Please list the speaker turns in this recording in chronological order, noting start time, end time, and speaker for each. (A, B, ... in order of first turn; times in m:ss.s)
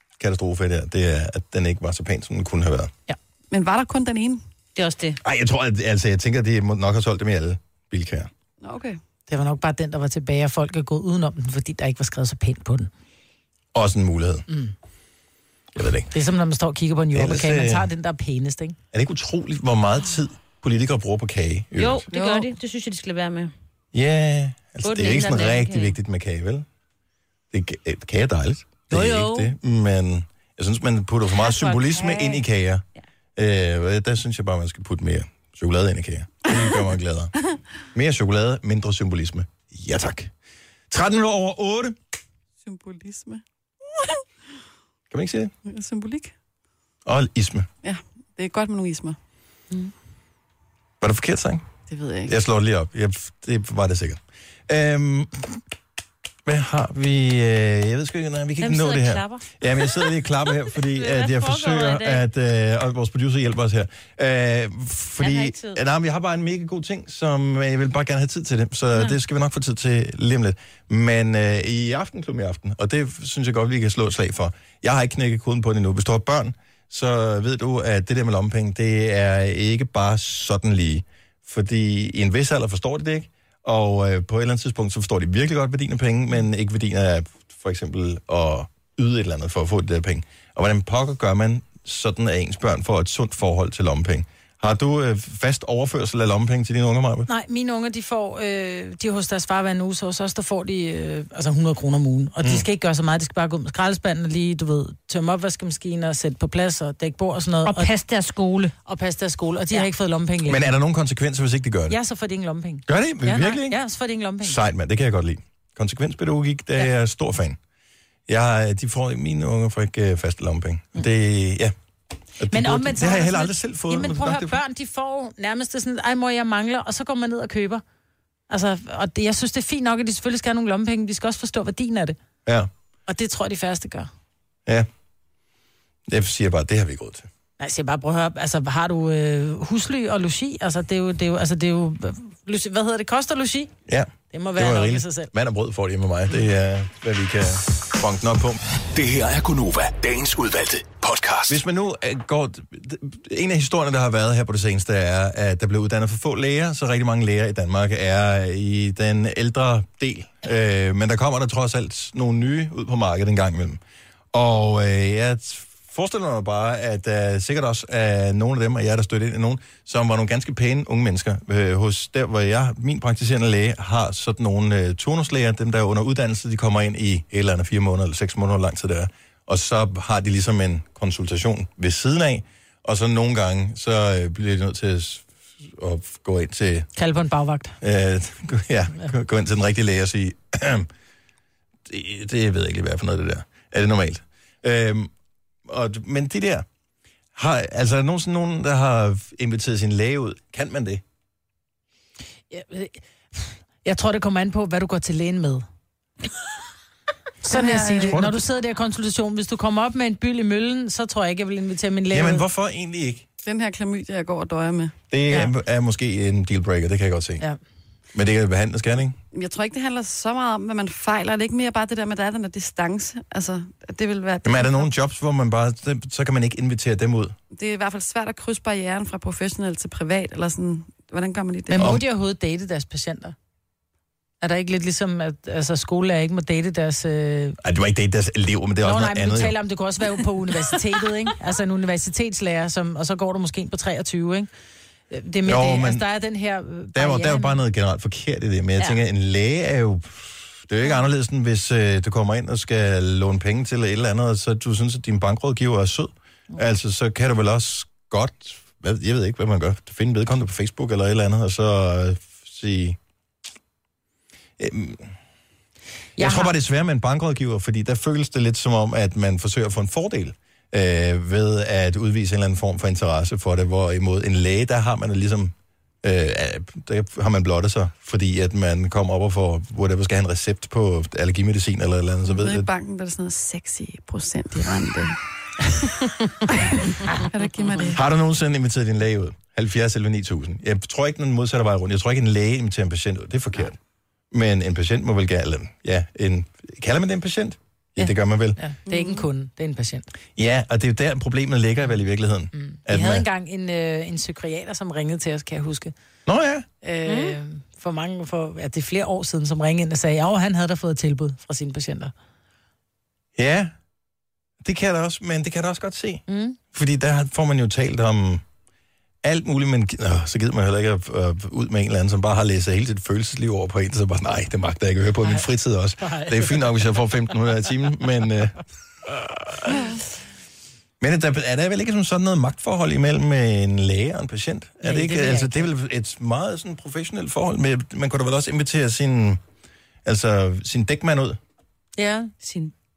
0:00.2-0:02.9 A
0:03.5-0:04.4 B
0:04.7-0:05.2 C
0:05.2-0:08.3 A
0:08.6-0:09.0 B
0:09.3-0:12.9 D
0:13.7-0:14.4 A
0:14.5-0:14.7 D
0:15.7-0:16.1 A
0:16.1-0:18.8 D
0:17.1-0:17.9 A
0:18.9-0:22.1 A
0:21.8-0:23.5 C
0:22.1-0:22.5 B
0:23.9-0:26.6 A
0:24.8-0:26.0 C
0:27.5-0:32.8 A
0:28.9-0:29.5 C
0:31.3-0:32.4 C
0:33.4-0:37.3 A
0:37.9-0:40.3 A
0:40.9-0:42.0 A
0:42.6-0:43.4 B
0:45.1-0:45.5 A
0:45.6-0:46.3 B
0:47.0-0:47.7 A
0:47.8-0:49.2 B
0:51.0-0:51.6 A
0:51.9-0:52.3 B
0:52.3-0:55.4 A
0:56.4-1:37.3 A
0:58.6-1:00.1 C
1:00.8-1:02.2 C
1:05.2-1:05.8 C
1:37.3-1:47.9 D
1:47.6-1:48.7 C
1:48.8-1:50.7 D
1:50.4-1:52.0 A
1:51.9-1:54.6 D
1:52.9-1:53.8 A
1:54.4-1:57.6 A
1:58.3-2:01.7 A
2:02.4-2:04.6 A
2:02.5-2:07.8 D
2:08.5-2:12.2 D
2:13.1-2:14.1 D
2:16.1-2:17.3 A
2:17.6-2:23.7 D
2:23.9-2:28.6 A
2:24.3-2:25.3 D
2:28.9-2:31.6 E
2:31.5-2:43.8 A
2:44.3-3:06.9 A
3:07.0-3:07.8 D
3:07.8-3:10.9 A
3:11.8-3:15.1 A
3:15.6-3:16.6 A
3:17.3-3:21.0 A
3:22.5-3:25.6 D
3:27.4-3:32.4 D
3:27.5-3:28.2 B
3:27.9-3:28.4 A
3:32.1-3:33.2 A
3:33.4-3:34.9 B
3:35.1-3:37.4 A
3:38.1-3:39.2 A
3:39.3-3:44.9 B
3:44.4-3:47.4 A
3:47.5-3:51.9 B
3:51.7-3:53.3 D
3:54.4-3:57.6 D
3:57.6-3:59.6 A
3:58.8-4:04.5 D
4:05.1-4:07.6 D
4:05.4-4:06.0 A
4:06.9-4:23.0 A
4:24.6-4:25.1 A
4:26.2-4:26.5 D
4:26.2-4:42.7 A
4:42.3-4:45.2 B
4:46.0-4:48.0 B
4:47.9-4:53.8 A
4:54.3-4:58.6 A
4:58.0-5:00.1 D
4:58.9-4:59.2 B
5:00.4-5:03.2 A
5:02.5-5:05.9 D
5:06.2-5:06.6 A
5:06.8-5:12.1 D
5:07.0-5:07.4 C
5:13.4-5:13.7 A
5:14.6-5:18.4 A
5:16.3-5:16.6 D
5:19.2-5:29.8 A
5:26.0-5:26.7 D
5:31.0-5:39.4 A
5:34.8-5:35.7 D
5:40.0-5:41.4 A
5:42.0-5:42.3 D
5:42.4-5:42.7 C